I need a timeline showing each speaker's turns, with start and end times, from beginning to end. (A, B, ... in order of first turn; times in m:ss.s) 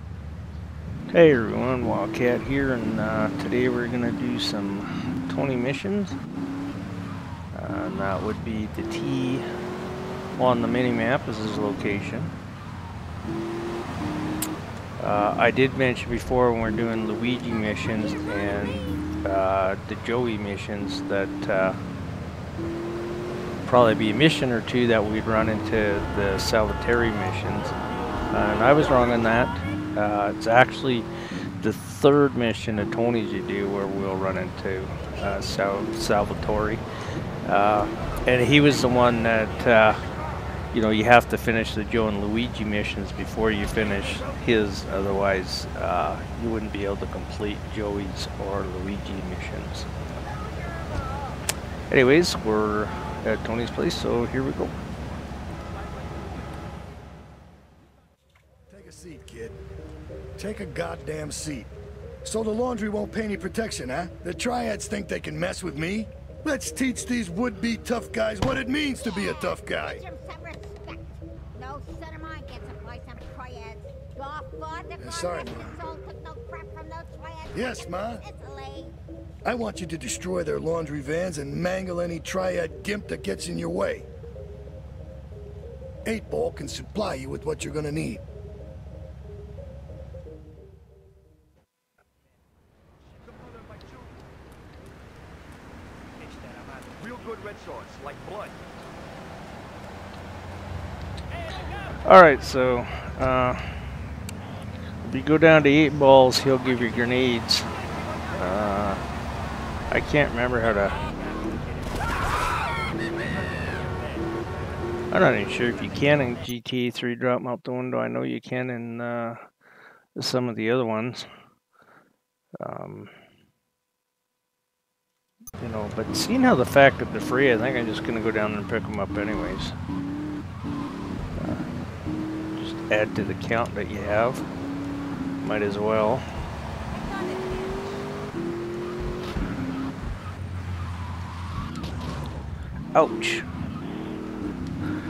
0:01.1-0:06.2 A
0:07.5-0:09.5 A
0:10.4-0:12.3 A
0:15.0-0:21.8 A
0:23.6-0:27.7 A
0:28.3-0:31.1 A
0:31.6-0:36.8 A
0:37.4-0:40.0 A
0:40.7-0:49.9 A
0:51.9-0:54.7 A
0:58.7-0:59.6 B
1:00.4-1:01.7 B
1:02.2-1:10.0 B
1:09.0-1:19.0 C
1:15.0-1:15.8 B
1:17.5-1:18.2 B
1:19.4-1:24.1 B
1:26.0-1:28.2 B
1:42.0-1:44.0 A
1:45.0-1:47.7 A
1:48.3-1:49.0 A
1:49.9-1:51.1 A
1:55.1-1:59.5 A
2:00.2-2:01.3 A
2:02.6-2:03.2 A
2:05.6-2:09.8 A
2:11.4-2:11.6 A
2:12.6-2:14.4 A
2:15.4-2:16.2 A
2:16.9-2:18.0 C
2:23.0-2:23.5 A